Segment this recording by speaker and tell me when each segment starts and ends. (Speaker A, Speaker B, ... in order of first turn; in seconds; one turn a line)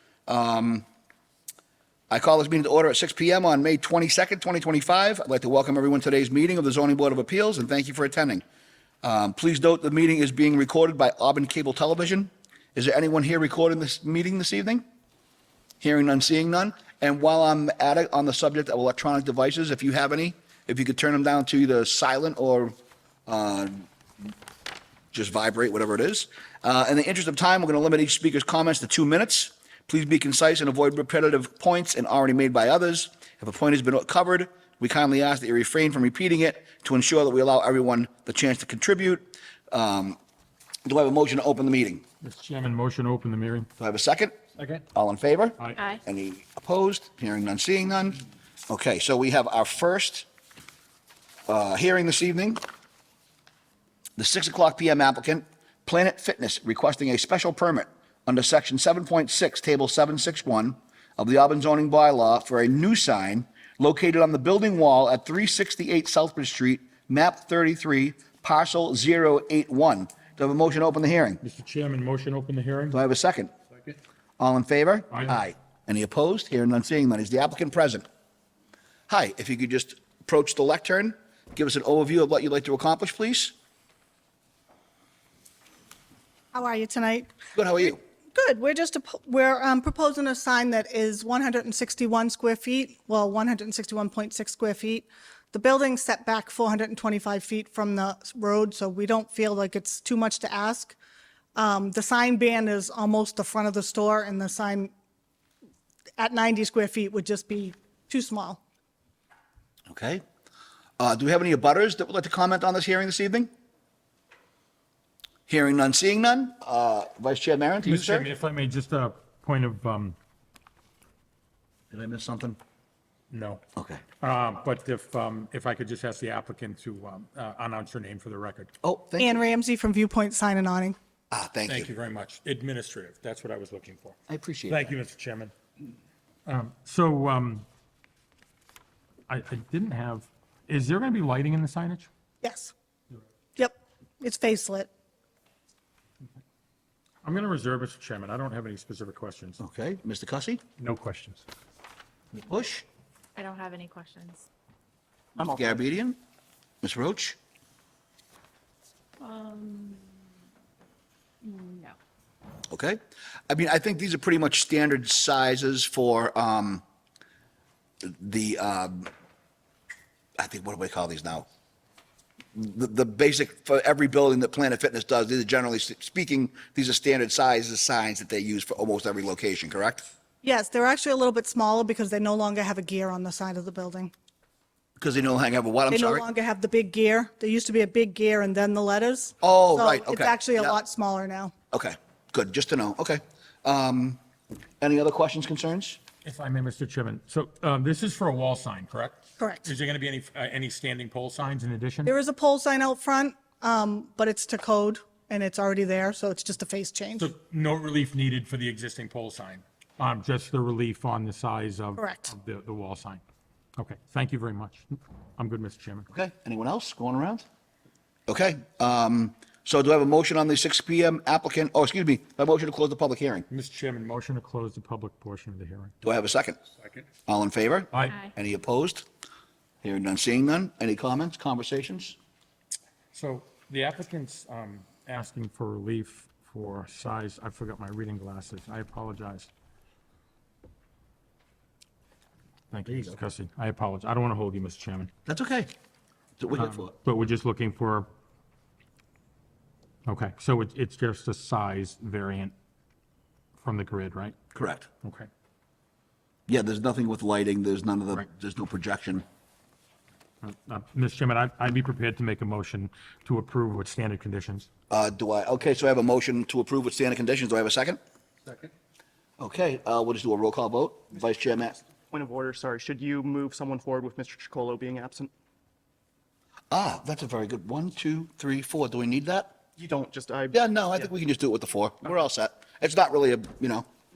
Speaker A: 0.3-0.8
Speaker A: 2.1-8.4
Speaker A: 9.0-14.8
Speaker A: 15.8-22.8
Speaker A: 23.3-23.9
Speaker A: 25.1-40.2
Speaker A: 40.9-42.0
Speaker B: 42.2-43.7
Speaker A: 43.8-44.3
Speaker B: 44.6-44.8
Speaker A: 44.9-50.3
Speaker A: 51.5-52.6
Speaker A: 54.2-71.4
Speaker B: 71.4-73.0
Speaker A: 72.9-73.5
Speaker A: 74.4-78.0
Speaker B: 75.1-75.4
Speaker A: 79.1-83.5
Speaker C: 86.5-87.3
Speaker A: 87.5-88.0
Speaker C: 88.3-101.0
Speaker C: 101.6-104.9
Speaker C: 106.2-108.6
Speaker A: 109.9-110.2
Speaker A: 111.0-113.5
Speaker A: 115.5-118.3
Speaker B: 117.8-120.2
Speaker A: 121.9-122.6
Speaker B: 123.3-123.6
Speaker A: 123.8-124.0
Speaker B: 124.2-128.7
Speaker A: 128.8-129.4
Speaker C: 129.2-131.0
Speaker A: 131.3-131.9
Speaker B: 131.7-134.2
Speaker A: 134.3-134.9
Speaker B: 134.7-135.5
Speaker B: 136.5-137.7
Speaker B: 139.3-142.1
Speaker C: 142.4-142.7
Speaker C: 143.6-144.9
Speaker B: 147.2-149.6
Speaker A: 149.6-150.6
Speaker B: 150.8-151.4
Speaker A: 152.3-152.8
Speaker D: 153.3-154.5
Speaker A: 155.4-156.2
Speaker A: 156.8-157.4
Speaker D: 159.2-160.2
Speaker D: 161.4-162.0
Speaker A: 162.7-166.8
Speaker A: 168.0-169.1
Speaker A: 170.4-171.5
Speaker A: 172.6-180.1
Speaker C: 180.4-184.1
Speaker A: 185.0-186.2
Speaker C: 185.9-191.5
Speaker A: 189.4-190.8
Speaker A: 191.7-194.2
Speaker A: 194.8-196.0
Speaker B: 196.2-202.1
Speaker C: 199.4-199.7
Speaker C: 202.1-207.3
Speaker B: 207.2-213.2
Speaker C: 212.0-212.3
Speaker B: 213.8-216.1
Speaker A: 216.1-217.4
Speaker A: 218.3-223.5
Speaker B: 223.5-225.9
Speaker A: 226.0-226.6
Speaker A: 227.3-229.1
Speaker A: 229.8-232.2
Speaker B: 233.1-239.5
Speaker B: 242.7-245.1
Speaker A: 242.8-243.2
Speaker A: 245.3-245.7
Speaker A: 246.4-246.9
Speaker B: 246.5-248.1
Speaker B: 250.1-252.5
Speaker B: 253.6-254.3
Speaker A: 254.5-254.9
Speaker B: 255.0-255.3
Speaker A: 256.5-259.2
Speaker B: 260.4-264.7
Speaker A: 264.9-268.0
Speaker A: 269.4-271.8
Speaker E: 272.1-275.3
Speaker A: 276.7-279.5
Speaker E: 279.8-281.0
Speaker A: 280.5-283.9